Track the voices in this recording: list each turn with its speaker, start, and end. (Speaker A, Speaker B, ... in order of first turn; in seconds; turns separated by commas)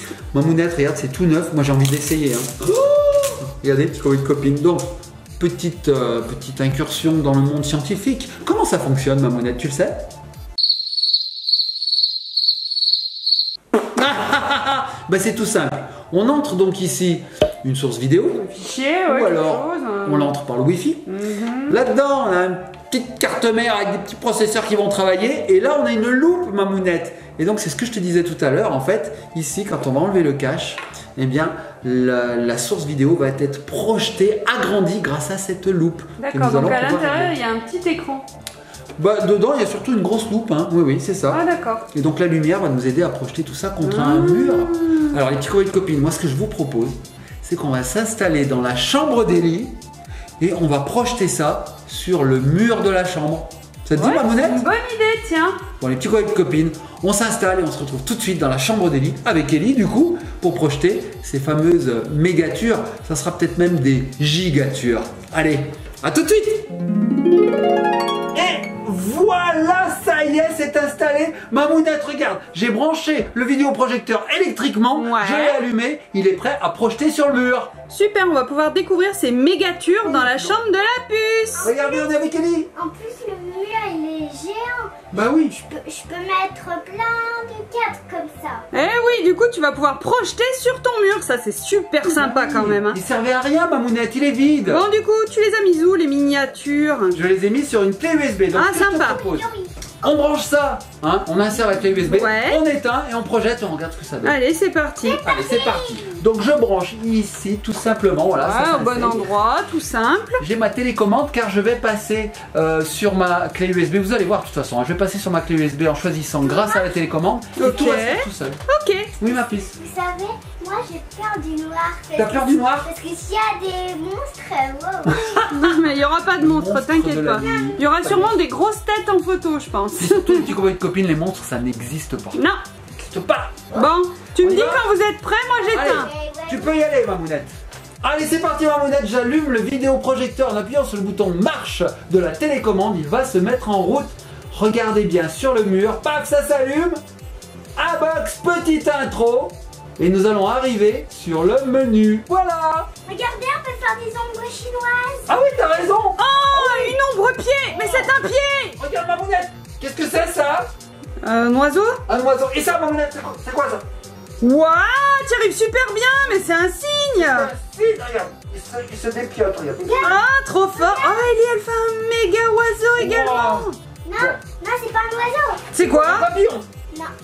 Speaker A: 0.3-2.8, Speaker A: 3.4-4.8, Speaker A: 5.4-10.1, Speaker A: 13.9-18.5, Speaker B: 18.4-20.3, Speaker A: 19.0-21.1, Speaker B: 21.1-21.8, Speaker A: 21.7-37.3, Speaker B: 36.2-38.2, Speaker A: 39.0-49.8, Speaker B: 41.3-41.9, Speaker B: 43.8-45.2, Speaker A: 50.4-54.6, Speaker B: 54.0-55.6, Speaker A: 55.8-66.7, Speaker A: 68.3-77.7, Speaker B: 74.9-75.6, Speaker B: 77.9-81.7, Speaker A: 80.0-80.6, Speaker C: 81.6-82.1, Speaker A: 81.6-82.7, Speaker C: 82.7-84.9, Speaker A: 85.1-85.6, Speaker C: 85.6-88.7, Speaker B: 88.7-93.0, Speaker A: 92.0-94.9, Speaker B: 94.7-97.2, Speaker A: 97.1-99.5, Speaker B: 98.5-99.2, Speaker C: 98.8-99.7, Speaker A: 100.0-104.4, Speaker B: 102.0-102.6, Speaker B: 104.2-105.2, Speaker C: 105.0-106.2, Speaker A: 105.2-109.3, Speaker B: 108.4-110.4, Speaker A: 110.4-118.6, Speaker C: 116.4-116.9, Speaker B: 117.6-119.1, Speaker A: 119.2-119.7, Speaker C: 119.5-125.3, Speaker A: 122.1-122.9, Speaker A: 125.1-125.8, Speaker B: 125.5-130.5, Speaker A: 126.4-128.3, Speaker C: 127.4-128.2, Speaker A: 130.0-132.4, Speaker B: 132.3-132.6, Speaker A: 132.9-133.8, Speaker B: 133.7-136.1, Speaker A: 134.4-134.9, Speaker C: 135.6-136.8, Speaker A: 135.7-147.0, Speaker A: 147.8-152.9, Speaker C: 153.1-155.3, Speaker A: 155.3-156.9, Speaker B: 156.2-158.8, Speaker A: 157.7-158.2, Speaker A: 158.8-160.7, Speaker B: 161.2-162.0, Speaker A: 162.1-163.8, Speaker B: 164.4-167.5, Speaker A: 167.1-170.0, Speaker C: 169.8-170.2, Speaker B: 170.0-173.8, Speaker C: 170.7-171.3, Speaker A: 173.0-174.4, Speaker C: 174.0-175.7, Speaker B: 175.7-176.3, Speaker A: 175.8-176.7